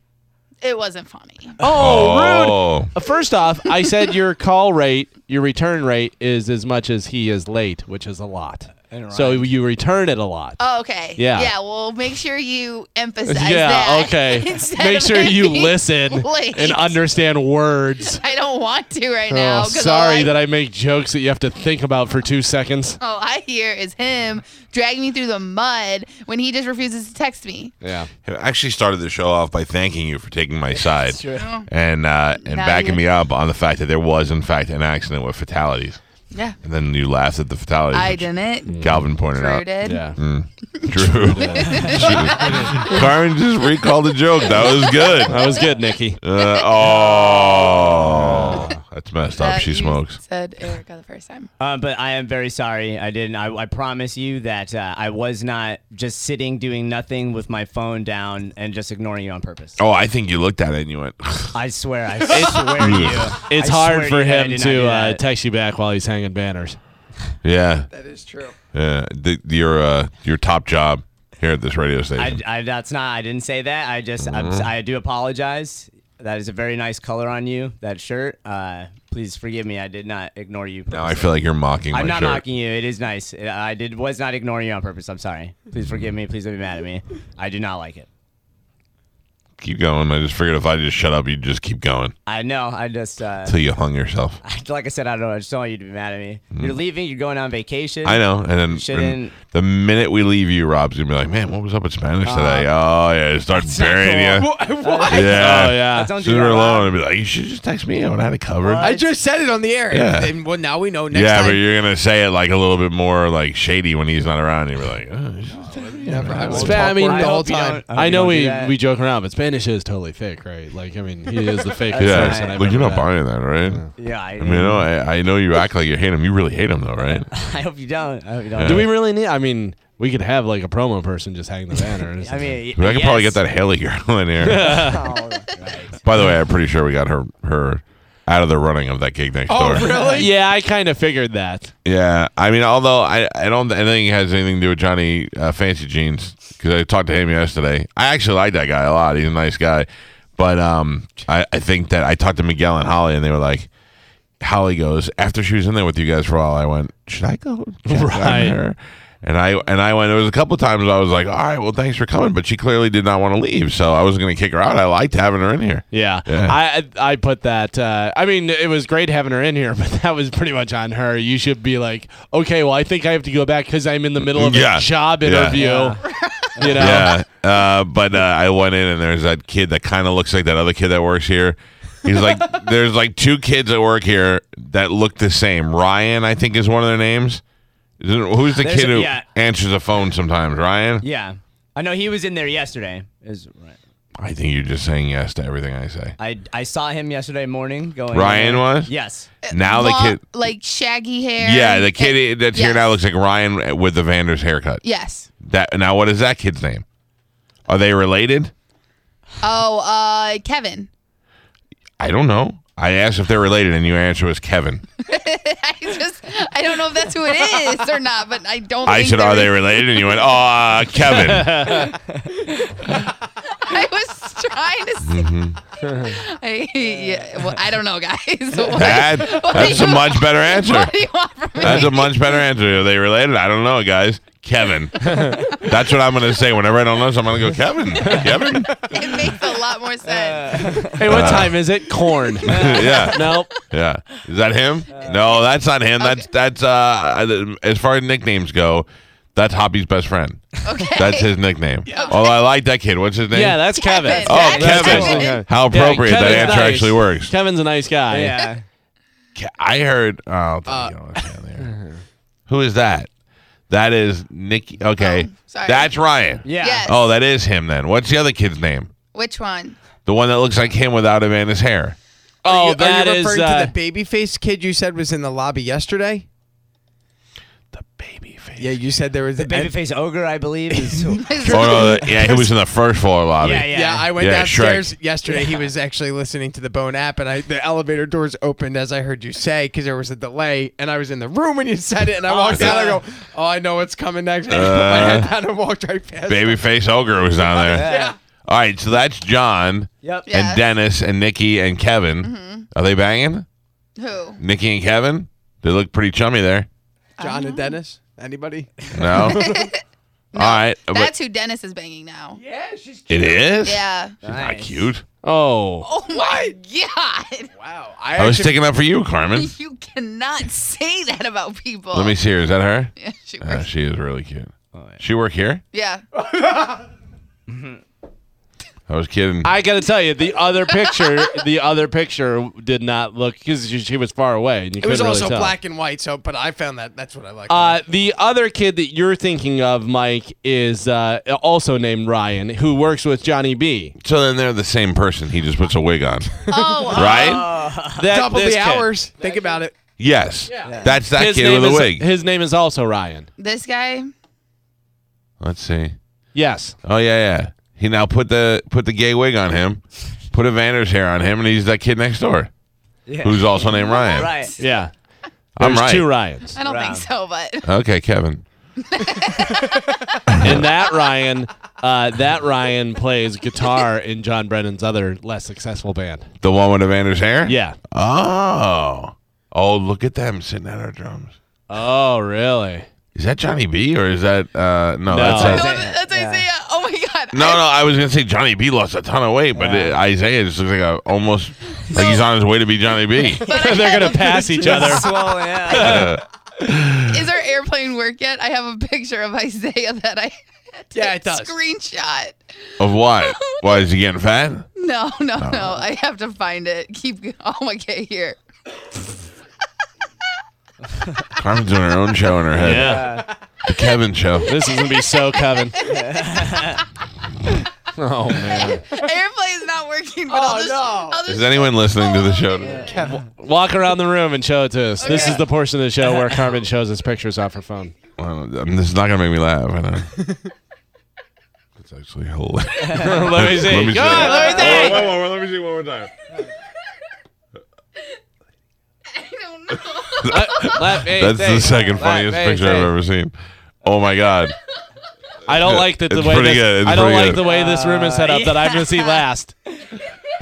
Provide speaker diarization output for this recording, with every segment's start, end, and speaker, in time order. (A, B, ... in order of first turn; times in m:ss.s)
0:00.6-0:01.6 A
0:01.6-0:10.6 B
0:01.7-0:02.9 C
0:08.9-0:09.5 D
0:10.6-0:17.0 A
0:11.2-0:11.5 B
0:13.3-0:18.2 B
0:18.1-0:20.3 A
0:19.3-0:23.0 B
0:23.0-0:27.7 A
0:27.8-0:28.1 B
0:28.2-0:36.0 C
0:31.1-0:31.4 D
0:31.3-0:31.7 A
0:32.4-0:33.0 A
0:36.6-0:39.6 C
0:37.9-0:40.0 A
0:38.7-0:39.0 B
0:39.8-0:40.2 B
0:40.2-0:45.5 C
0:40.8-0:43.0 A
0:41.0-0:42.8 B
0:44.9-0:45.7 A
0:45.2-0:46.2 B
0:46.2-0:50.2 C
0:46.4-0:48.1 A
0:48.1-0:48.8 B
0:49.4-0:51.5 A
0:51.6-0:59.8 D
0:59.8-1:01.5 C
1:01.5-1:05.2 D
1:02.4-1:03.3 C
1:03.4-1:06.8 B
1:07.4-1:07.9 C
1:07.9-1:08.5 E
1:08.7-1:12.4 C
1:12.2-1:21.4 D
1:14.2-1:14.7 C
1:20.9-1:22.4 C
1:21.9-1:28.1 D
1:25.8-1:26.0 C
1:29.6-1:32.1 C
1:32.2-1:33.6 D
1:33.4-1:34.4 C
1:34.4-1:39.4 D
1:38.0-1:44.5 C
1:42.2-1:42.7 D
1:43.5-1:46.9 D
1:44.3-1:45.4 E
1:45.1-1:49.0 C
1:45.3-1:46.1 B
1:48.6-1:49.0 D
1:48.8-1:51.6 E
1:49.9-1:50.3 C
1:51.1-1:56.9 C
1:56.0-1:57.8 E
1:56.4-2:03.1 B
1:56.6-1:58.8 D
2:01.9-2:02.6 D
2:02.0-2:03.8 C
2:04.0-2:04.7 D
2:04.4-2:07.3 C
2:04.5-2:04.8 B
2:07.3-2:08.9 D
2:08.6-2:08.9 C
2:08.6-2:12.6 B
2:12.2-2:13.4 D
2:12.8-2:14.9 C
2:14.4-2:15.1 B
2:14.7-2:16.0 D
2:16.0-2:19.9 C
2:19.5-2:20.3 E
2:20.0-2:21.7 B
2:21.8-2:33.7 C
2:34.4-2:46.6 C
2:37.9-2:38.6 B
2:45.9-2:56.0 B
2:54.2-2:55.6 C
2:55.6-2:56.0 D
2:56.6-2:56.9 D
2:56.6-2:57.1 B
2:56.8-3:07.4 C
3:08.0-3:11.0 C
3:08.5-3:09.2 D
3:11.0-3:13.8 D
3:14.2-3:16.2 C
3:16.2-3:19.3 D
3:18.1-3:18.9 C
3:19.4-3:22.8 A
3:19.5-3:20.2 C
3:21.4-3:24.8 C
3:24.8-3:25.3 A
3:25.4-3:26.8 C
3:27.7-3:28.5 C
3:29.4-3:30.9 A
3:32.0-3:34.8 C
3:35.0-3:40.2 A
3:38.8-3:41.8 C
3:43.5-3:45.2 A
3:45.0-3:45.6 C
3:45.8-3:52.3 A
3:46.9-3:47.5 D
3:48.7-3:50.9 C
3:51.6-3:58.9 C
3:58.8-4:01.0 A
4:00.0-4:01.0 D
4:01.0-4:03.5 B
4:01.0-4:01.6 C
4:02.4-4:13.6 C
4:02.5-4:02.8 D
4:06.0-4:06.2 A
4:10.6-4:11.3 A
4:13.3-4:18.5 B
4:13.8-4:15.4 A
4:14.2-4:15.3 D
4:14.2-4:17.3 C
4:16.2-4:16.7 D
4:18.1-4:18.6 D
4:19.4-4:21.7 C
4:20.7-4:20.9 E
4:21.6-4:22.0 B
4:22.5-4:23.1 C
4:23.7-4:28.9 C
4:25.0-4:25.9 A
4:26.4-4:26.9 D
4:26.6-4:27.0 A
4:29.1-4:29.8 A
4:30.0-4:32.0 C
4:32.4-4:33.7 B
4:32.4-4:36.2 E
4:37.7-4:38.7 C
4:38.6-4:39.8 E
4:39.4-4:41.4 D
4:40.7-4:42.5 E
4:41.2-4:42.2 A
4:41.4-4:44.9 C
4:43.4-4:44.1 D
4:43.7-4:56.6 E
4:52.3-4:53.0 D
4:54.5-4:55.3 C
4:56.3-5:03.5 C
4:57.4-4:58.2 E
4:57.7-4:58.1 D
5:00.0-5:00.3 D
5:00.3-5:00.6 A
5:02.2-5:02.7 A
5:04.0-5:04.4 A
5:04.4-5:06.7 C
5:07.2-5:07.8 A
5:07.2-5:09.4 E
5:08.9-5:09.6 C
5:09.2-5:09.8 A
5:10.3-5:12.4 A
5:10.3-5:11.1 C
5:12.4-5:13.6 E
5:13.1-5:15.0 C
5:13.6-5:14.1 A
5:14.2-5:14.8 D
5:15.2-5:15.9 B
5:15.8-5:17.5 A
5:16.1-5:16.6 E
5:17.6-5:18.6 E
5:18.1-5:19.5 C
5:19.3-5:22.2 A
5:21.9-5:25.6 C
5:23.0-5:23.6 A
5:24.7-5:25.0 D
5:25.7-5:26.0 A
5:26.2-5:26.8 E
5:27.5-5:27.8 D
5:28.9-5:29.5 C
5:29.4-5:35.5 B
5:34.8-5:37.8 E
5:37.5-5:44.0 B
5:44.0-5:47.5 C
5:46.5-5:47.5 A
5:46.9-5:48.1 D
5:48.0-5:48.9 B
5:48.1-5:49.8 E
5:50.0-5:52.0 C
5:50.6-5:51.0 D
5:51.1-5:53.3 B
5:53.4-5:54.1 A
5:55.4-5:56.0 C
5:56.3-5:56.8 B
5:56.8-6:02.5 C
6:03.1-6:04.5 D
6:03.2-6:04.3 C
6:03.8-6:04.4 A
6:04.6-6:04.9 B
6:05.6-6:06.1 C
6:05.6-6:06.5 B
6:06.6-6:07.7 A
6:06.6-6:07.0 D
6:07.6-6:08.4 C
6:08.8-6:10.2 A
6:10.3-6:10.6 C
6:10.4-6:16.3 B
6:16.4-6:21.3 C
6:17.5-6:17.8 B
6:21.7-6:22.8 B
6:23.1-6:25.7 C
6:25.1-6:25.6 B
6:25.3-6:27.6 A
6:25.3-6:26.4 D
6:27.3-6:33.5 C
6:29.5-6:29.9 D
6:31.9-6:32.3 A
6:33.4-6:35.0 A
6:33.5-6:35.1 B
6:33.6-6:34.0 D
6:34.6-6:36.1 D
6:35.7-6:37.3 C
6:37.1-6:42.4 A
6:40.9-6:41.6 E
6:42.8-6:44.7 C
6:43.2-6:43.6 A
6:44.8-6:48.4 A
6:45.4-6:45.8 C
6:51.3-6:53.1 C
6:52.6-6:53.2 B
6:52.6-6:53.3 D
6:53.6-6:54.5 C
6:54.4-6:55.8 B
6:54.6-6:56.8 A
6:55.8-6:56.8 D
6:58.0-6:58.8 B
6:58.6-7:03.0 A
7:00.3-7:01.2 E
7:01.2-7:02.9 C
7:02.6-7:03.1 D
7:02.9-7:03.1 E
7:03.0-7:07.9 B
7:05.0-7:05.4 A
7:05.1-7:05.4 E
7:08.2-7:10.1 C
7:11.8-7:16.1 C
7:12.9-7:15.0 B
7:14.2-7:15.1 D
7:14.4-7:15.0 E
7:19.1-7:20.7 A
7:19.9-7:24.6 C
7:20.3-7:22.9 B
7:25.5-7:29.6 B
7:25.5-7:27.4 C
7:27.4-7:28.8 D